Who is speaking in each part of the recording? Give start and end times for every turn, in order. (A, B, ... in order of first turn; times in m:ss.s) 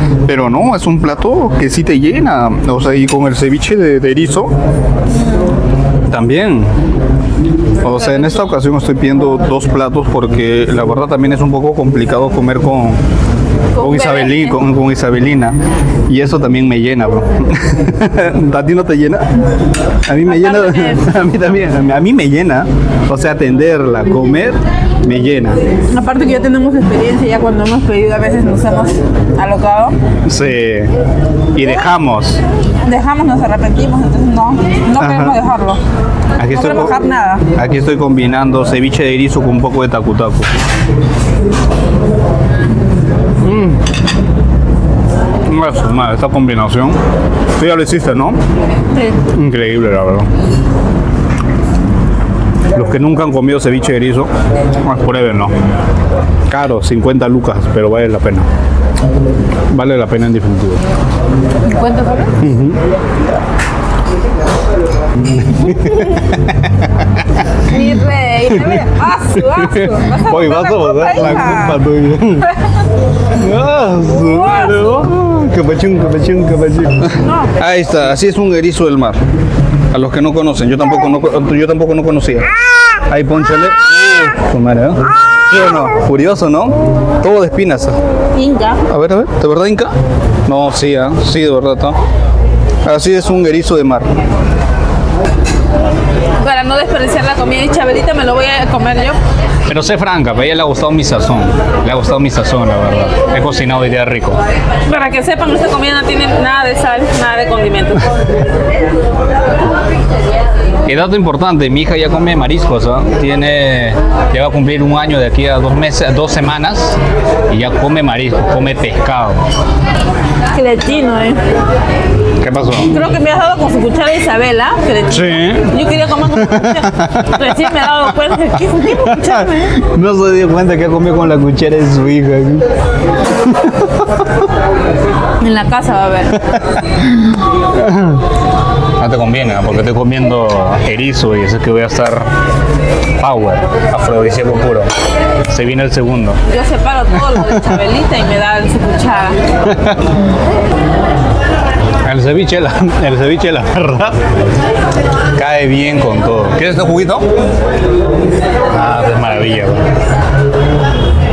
0:00.2-0:04.6 A
0:05.1-0:05.5 B
0:06.1-0:06.7 A
0:07.8-0:13.0 A
0:07.9-0:08.5 B
0:13.7-0:14.6 B
0:13.8-0:15.6 A
0:16.1-0:19.3 A
0:20.1-0:25.6 A
0:20.2-0:21.0 B
0:25.9-0:30.0 B
0:30.2-0:30.9 A
0:31.5-0:32.4 A
0:32.8-0:35.8 B
0:35.0-0:35.4 A
0:36.4-0:37.0 A
0:36.5-0:37.4 B
0:37.5-0:40.5 A
0:43.4-0:43.8 A
0:45.4-0:47.0 A
0:47.6-0:48.4 A
0:48.9-0:49.2 B
0:49.3-0:50.3 A
0:52.7-0:54.3 A
0:54.8-0:55.5 A
0:56.5-0:58.5 A
0:59.7-1:00.8 A
1:01.7-1:02.4 B
1:02.4-1:02.8 A
1:05.1-1:07.4 A
1:05.6-1:06.3 B
1:07.6-1:11.8 B
1:08.5-1:12.5 A
1:13.3-1:19.2 A
1:14.3-1:15.0 B
1:17.2-1:17.5 B
1:19.9-1:22.5 A
1:23.0-1:28.0 A
1:28.3-1:28.8 B
1:28.9-1:30.0 A
1:30.5-1:32.0 A
1:32.8-1:34.1 A
1:36.4-1:39.2 B
1:39.7-1:44.4 A
1:44.8-1:48.1 B
1:50.8-1:59.4 A
2:00.5-2:01.4 B
2:02.4-2:02.9 A
2:02.9-2:09.7 B
2:05.1-2:12.7 A
2:13.3-2:14.5 A
2:15.4-2:16.4 B
2:16.5-2:18.2 A
2:19.0-2:22.3 A
2:23.2-2:24.9 A
2:25.5-2:26.4 A
2:26.5-2:29.4 B
2:27.2-2:27.6 A
2:29.6-2:30.0 A
2:32.0-2:34.3 A
2:35.4-2:37.3 A
2:38.7-2:39.8 A